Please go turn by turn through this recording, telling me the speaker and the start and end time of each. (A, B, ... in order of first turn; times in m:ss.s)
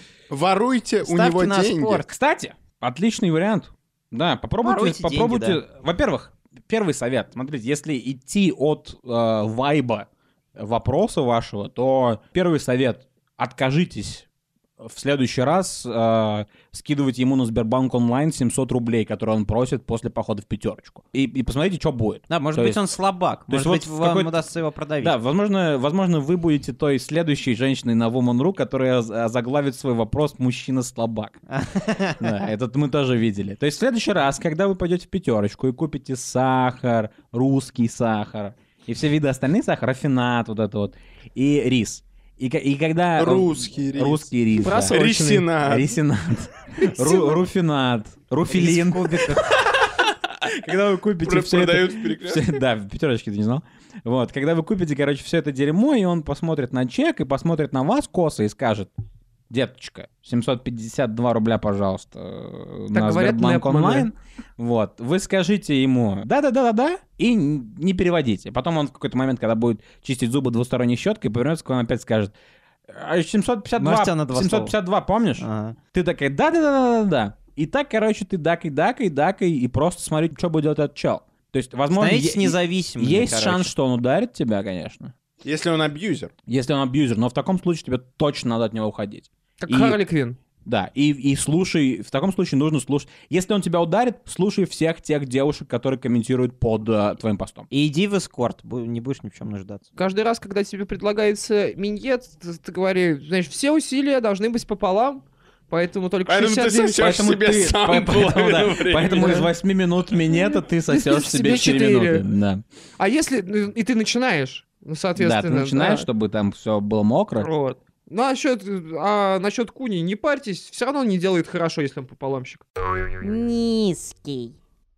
0:00.3-0:02.0 A
0:01.0-0:02.1 B
0:02.1-0:14.2 C
0:04.6-0:05.6 B
0:14.8-0:22.8 C
0:22.3-0:25.1 B
0:23.5-0:24.3 C
0:25.0-0:31.4 C
0:31.5-0:32.2 B
0:32.2-0:45.0 C
0:43.2-0:45.9 A
0:44.6-0:45.5 D
0:45.6-0:49.6 C
0:46.9-0:47.3 D
0:48.5-0:49.5 B
0:50.4-0:58.9 C
0:51.2-0:52.6 A
0:59.5-1:12.3 C
1:02.9-1:04.1 D
1:12.9-1:25.1 C
1:13.8-1:14.7 B
1:15.4-1:15.8 B
1:21.9-1:23.7 B
1:25.4-1:26.3 A
1:26.5-1:30.0 C
1:29.6-1:30.4 D
1:30.6-1:37.7 C
1:37.7-1:39.8 B
1:40.0-1:47.0 D
1:46.2-1:49.5 A
1:46.9-1:52.6 C
1:50.9-1:52.2 D
1:53.0-1:56.1 D
1:55.2-1:57.5 C
1:57.4-2:02.6 D
2:03.2-2:04.5 B